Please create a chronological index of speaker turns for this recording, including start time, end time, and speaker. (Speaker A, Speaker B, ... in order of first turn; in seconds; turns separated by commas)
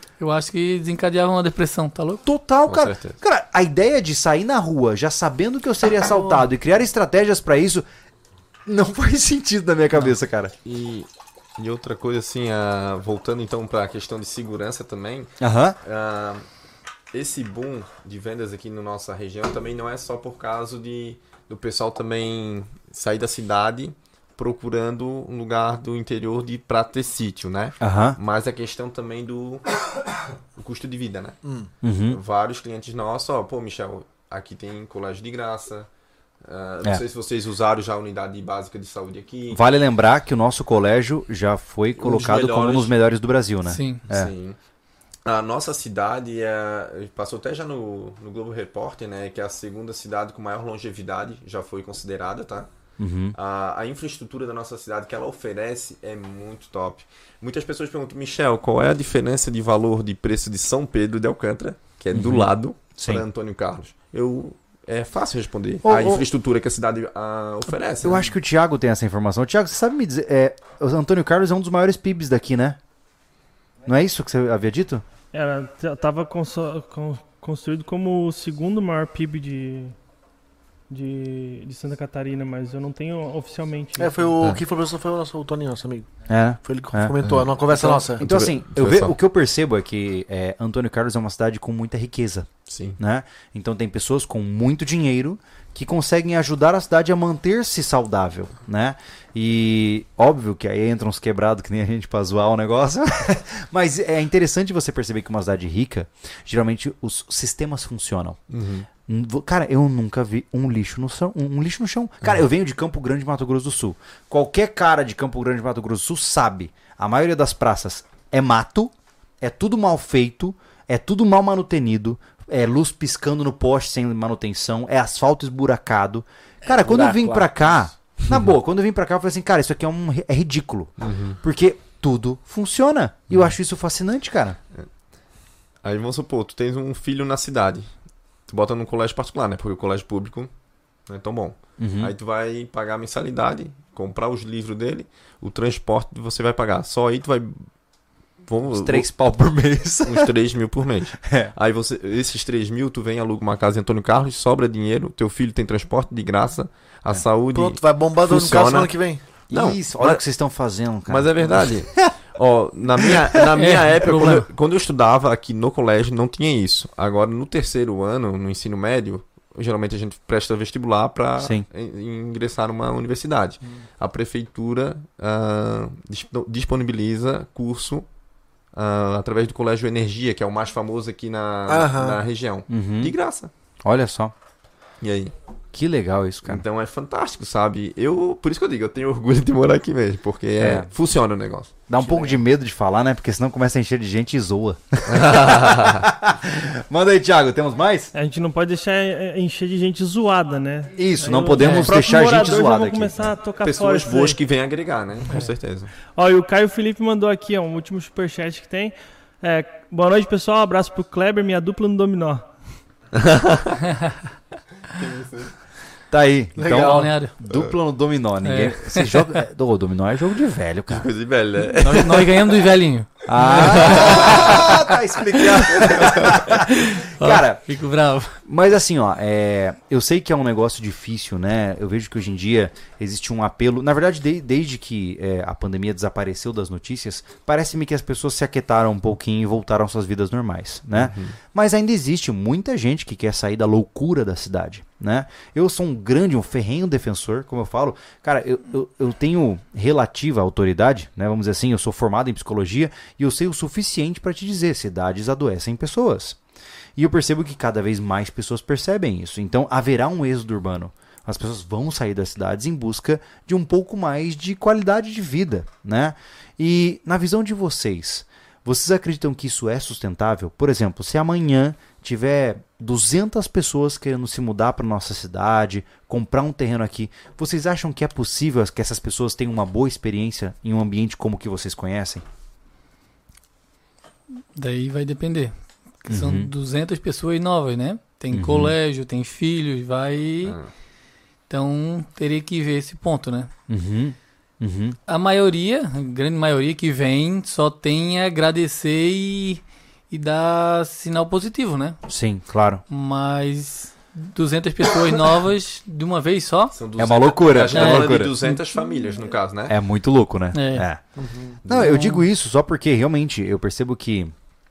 Speaker A: 0.2-2.2, Speaker B: 2.2-7.8, Speaker C: 2.7-3.2, Speaker B: 8.7-10.5, Speaker C: 10.6-16.4, Speaker B: 15.4-15.8, Speaker C: 17.1-29.7, Speaker B: 27.8-28.2, Speaker C: 30.6-31.4, Speaker B: 31.8-32.2, Speaker C: 32.1-35.9, Speaker C: 36.4-39.6, Speaker B: 39.5-44.3, Speaker C: 42.0-42.9, Speaker A: 43.6-44.0, Speaker C: 44.1-44.6, Speaker C: 45.2-52.7, Speaker B: 53.0-53.4, Speaker C: 53.3-68.3, Speaker B: 62.1-63.2, Speaker B: 65.8-66.2, Speaker B: 68.0-72.8, Speaker B: 73.8-75.0, Speaker D: 75.3-80.0, Speaker D: 80.9-84.3, Speaker E: 84.0-86.1, Speaker B: 86.3-87.2, Speaker E: 86.6-88.2, Speaker B: 87.7-92.5, Speaker C: 88.2-89.1, Speaker C: 92.7-93.0, Speaker B: 93.0-108.4, Speaker C: 108.5-108.8, Speaker B: 109.1-134.6, Speaker E: 126.7-127.6, Speaker C: 128.2-128.5, Speaker C: 131.0-131.4, Speaker C: 135.8-137.9, Speaker C: 138.5-140.5, Speaker C: 141.1-147.6, Speaker B: 141.8-142.1, Speaker C: 148.5-149.1, Speaker B: 148.7-150.3, Speaker C: 150.0-158.9, Speaker B: 151.2-151.5, Speaker E: 157.5-159.2, Speaker C: 159.5-160.2, Speaker B: 159.5-162.1, Speaker C: 161.1-178.1, Speaker B: 163.0-163.4, Speaker A: 163.5-164.5, Speaker B: 171.4-171.6, Speaker C: 178.7-183.5, Speaker E: 181.7-182.2, Speaker B: 182.7-183.1, Speaker B: 183.8-184.3, Speaker C: 185.0-185.3, Speaker B: 185.7-186.6, Speaker C: 186.4-191.7, Speaker B: 190.6-190.9, Speaker B: 191.9-198.1, Speaker E: 192.0-192.4, Speaker C: 195.1-196.0, Speaker D: 198.1-204.4, Speaker B: 201.0-203.3, Speaker A: 201.5-201.9, Speaker C: 203.6-205.9, Speaker D: 206.1-212.5, Speaker C: 213.1-213.8, Speaker C: 214.9-215.5, Speaker B: 216.1-221.1, Speaker A: 216.6-217.3, Speaker E: 216.6-217.0, Speaker A: 218.4-219.4, Speaker C: 220.9-222.6, Speaker A: 221.7-224.8, Speaker B: 223.3-227.6, Speaker C: 223.5-224.7, Speaker C: 225.6-226.4, Speaker A: 226.4-228.4, Speaker B: 228.4-256.4, Speaker C: 240.9-241.3, Speaker B: 256.9-282.2, Speaker A: 284.5-290.6, Speaker B: 286.1-286.5, Speaker B: 288.3-288.7, Speaker A: 291.5-293.5, Speaker B: 293.7-295.0, Speaker A: 295.1-302.0, Speaker B: 302.1-302.8, Speaker A: 302.9-306.7, Speaker C: 306.7-309.8, Speaker B: 307.0-308.4, Speaker A: 307.7-308.6, Speaker B: 309.7-311.0, Speaker A: 310.5-310.9, Speaker E: 311.2-311.6, Speaker B: 311.6-314.3, Speaker A: 311.7-312.2